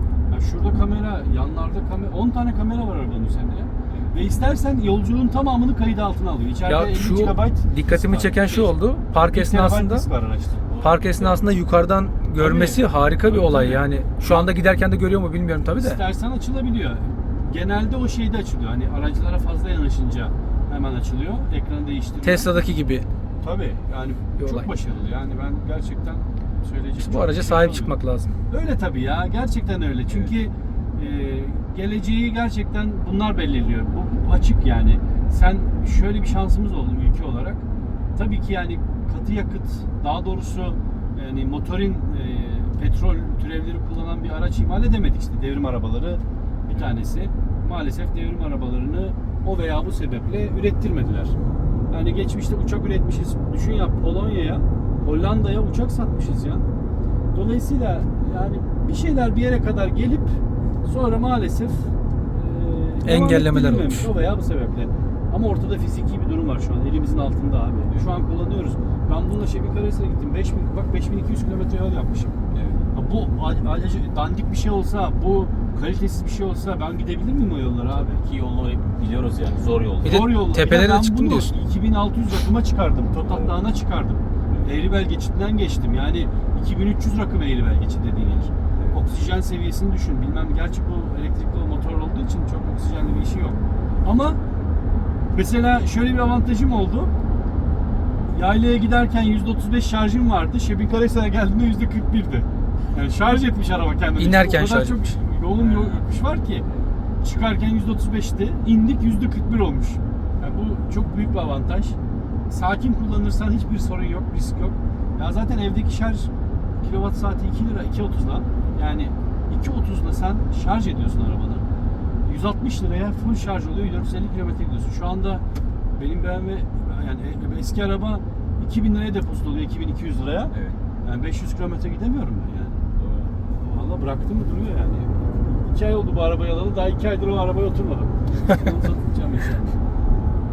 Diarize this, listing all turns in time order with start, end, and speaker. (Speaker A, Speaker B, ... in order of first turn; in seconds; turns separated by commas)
Speaker A: 0.3-10.6, Speaker B: 6.7-10.1, Speaker C: 10.7-11.4, Speaker B: 10.8-16.0, Speaker A: 12.4-14.6, Speaker A: 15.7-22.6, Speaker B: 22.2-23.1, Speaker A: 23.4-27.9, Speaker B: 24.4-24.7, Speaker B: 27.0-28.4, Speaker A: 28.5-51.4, Speaker A: 51.9-56.7, Speaker A: 57.3-72.4, Speaker B: 63.0-64.1, Speaker C: 72.5-72.9, Speaker A: 72.9-78.2, Speaker C: 77.9-80.4, Speaker B: 80.0-81.5, Speaker A: 80.0-94.4, Speaker C: 83.2-83.6, Speaker C: 84.5-84.8, Speaker A: 95.3-97.1, Speaker A: 98.3-106.7, Speaker B: 104.2-105.1, Speaker C: 105.6-106.9, Speaker A: 107.2-112.0, Speaker A: 112.5-121.7, Speaker A: 122.2-125.4, Speaker A: 126.0-132.8, Speaker C: 130.5-130.8, Speaker C: 133.0-133.3, Speaker A: 133.4-139.8